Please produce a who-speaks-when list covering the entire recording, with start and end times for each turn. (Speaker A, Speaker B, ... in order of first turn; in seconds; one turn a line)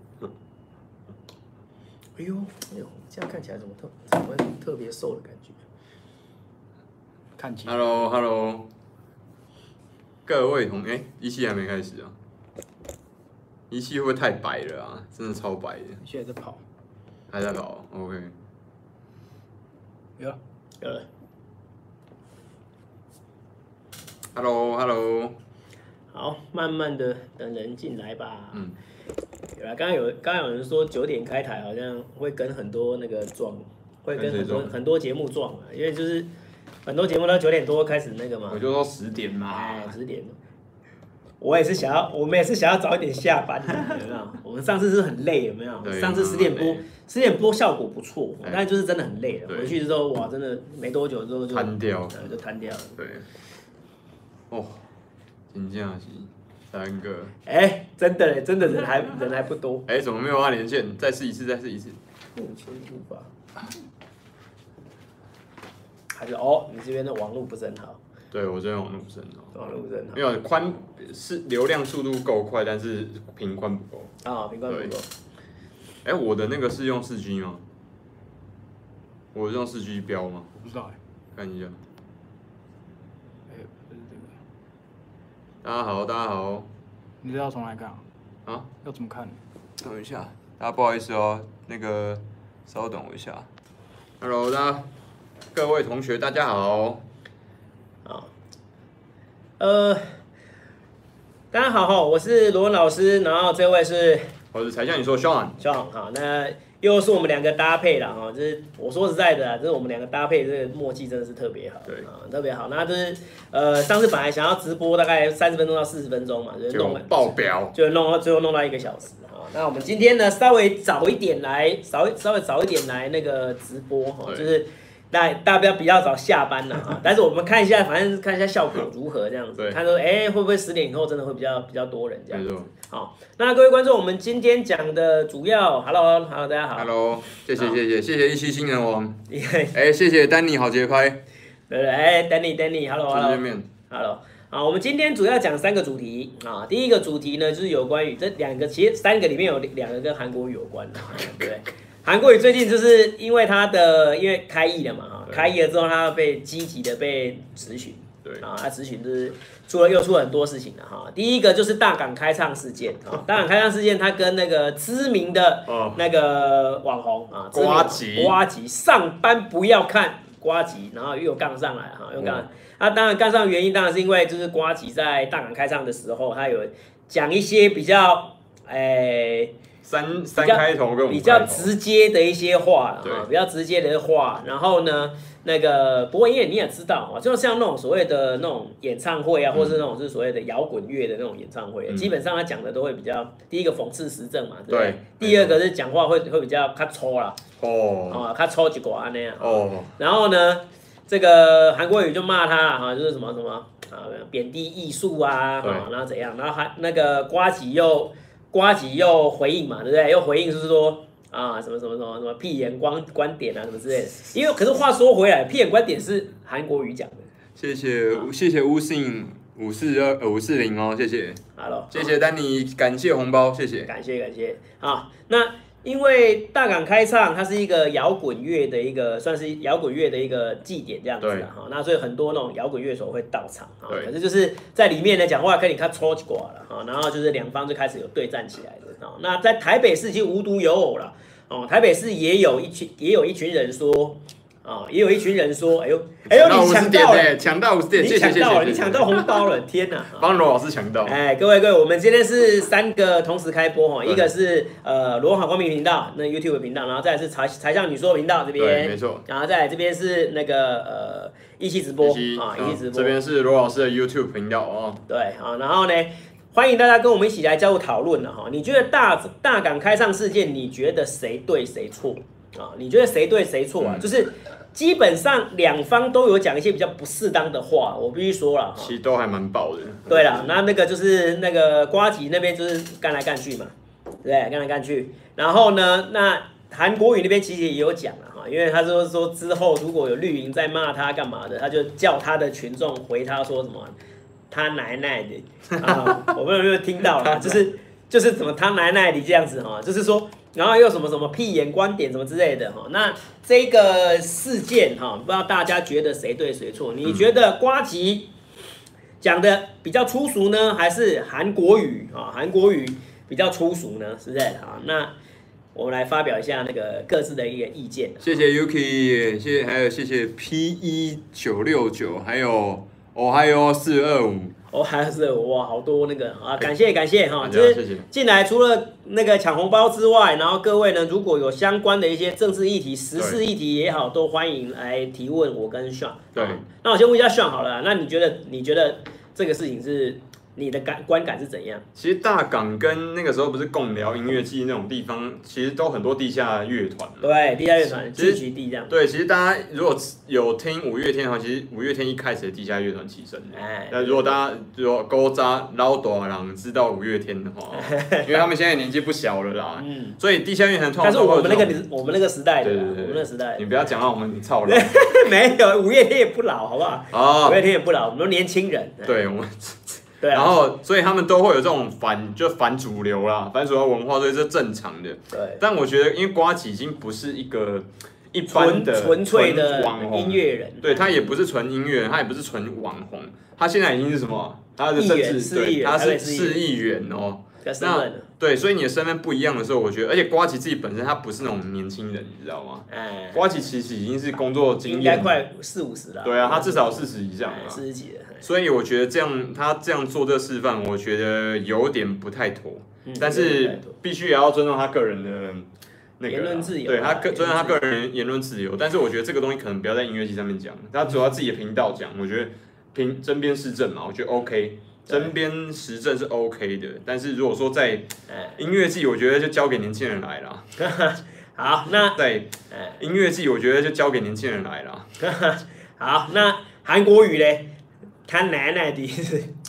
Speaker A: 2.2-5.6
Speaker B: 7.4-7.8
Speaker C: 7.7-8.7
Speaker C: 10.2-12.1
Speaker C: 13.7-16.0
Speaker B: 16.0-16.6
Speaker C: 17.3-18.3
Speaker A: 20.8-21.1
Speaker C: 24.3-25.4
Speaker A: 26.1-28.6
Speaker A: 29.6-36.3
Speaker C: 34.1-34.7
Speaker A: 36.9-38.6
Speaker C: 38.5-39.9
Speaker A: 39.5-40.4
Speaker A: 41.4-53.0
Speaker C: 45.8-46.8
Speaker C: 49.5-49.8
Speaker C: 51.5-52.3
Speaker C: 53.0-53.2
Speaker C: 54.5-54.8
Speaker C: 55.5-57.3
Speaker A: 57.5-59.9
Speaker C: 59.9-62.0
Speaker A: 62.4-63.3
Speaker A: 66.1-68.0
Speaker C: 68.3-69.5
Speaker A: 69.5-70.2
Speaker C: 70.1-74.1
Speaker A: 74.2-75.1
Speaker C: 74.7-74.9
Speaker C: 76.0-77.6
Speaker C: 79.3-80.5
Speaker B: 80.5-81.0
Speaker C: 81.3-81.8
Speaker B: 83.5-84.3
Speaker C: 85.6-86.7
Speaker B: 87.2-88.0
Speaker B: 88.8-89.4
Speaker C: 89.8-93.5
Speaker C: 94.2-94.9
Speaker C: 95.5-97.0
Speaker A: 98.0-98.3
Speaker A: 99.6-100.2
Speaker A: 101.5-104.2
Speaker C: 104.5-105.6
Speaker A: 105.6-136.9
Speaker C: 116.7-117.7
Speaker C: 132.3-132.7
Speaker C: 136.8-139.2
Speaker A: 139.3-139.7
Speaker C: 139.7-141.2
Speaker A: 141.7-179.5
Speaker C: 143.1-143.7
Speaker C: 165.7-166.0
Speaker C: 167.5-168.4
Speaker C: 172.2-172.4
Speaker C: 179.8-181.7
Speaker A: 180.4-197.4
Speaker C: 189.5-189.8
Speaker C: 191.9-192.1
Speaker C: 194.7-195.6
Speaker C: 197.6-198.2
Speaker A: 198.1-217.3
Speaker C: 199.4-199.9
Speaker C: 205.6-205.9
Speaker C: 217.6-221.4
Speaker A: 221.6-222.1
Speaker C: 221.9-223.9
Speaker A: 223.8-247.3
Speaker C: 231.2-231.5
Speaker C: 246.2-249.5
Speaker A: 247.9-250.4
Speaker C: 250.2-251.2
Speaker A: 251.0-263.1
Speaker C: 258.6-259.2
Speaker C: 262.0-265.0
Speaker A: 265.1-278.9
Speaker C: 273.8-274.1
Speaker C: 278.8-280.6
Speaker A: 280.1-283.7
Speaker A: 284.2-293.9
Speaker A: 294.5-308.3
Speaker C: 295.8-296.3
Speaker C: 297.0-297.6
Speaker A: 309.2-315.1
Speaker A: 315.7-318.4
Speaker C: 318.2-324.5
Speaker A: 324.7-341.8
Speaker C: 327.4-328.1
Speaker C: 333.1-333.4
Speaker C: 336.3-336.6
Speaker C: 341.9-347.3
Speaker A: 347.2-348.9
Speaker C: 348.1-361.8
Speaker A: 353.6-354.4
Speaker A: 357.7-358.5
Speaker A: 359.8-360.2
Speaker A: 361.0-363.6
Speaker C: 362.6-364.9
Speaker A: 364.6-369.2
Speaker C: 367.1-367.6
Speaker C: 369.0-395.3
Speaker A: 370.2-370.5
Speaker A: 375.3-375.6
Speaker A: 378.4-381.4
Speaker A: 384.9-386.6
Speaker A: 387.6-388.3
Speaker A: 392.9-393.4
Speaker A: 394.8-398.4
Speaker C: 396.2-397.8
Speaker C: 398.4-405.7
Speaker A: 403.0-403.9
Speaker C: 406.2-420.7
Speaker A: 406.3-407.8
Speaker A: 415.1-415.3
Speaker A: 418.3-418.6
Speaker A: 420.8-422.2
Speaker C: 422.1-425.1
Speaker A: 422.7-423.0
Speaker A: 425.2-427.7
Speaker A: 428.3-429.5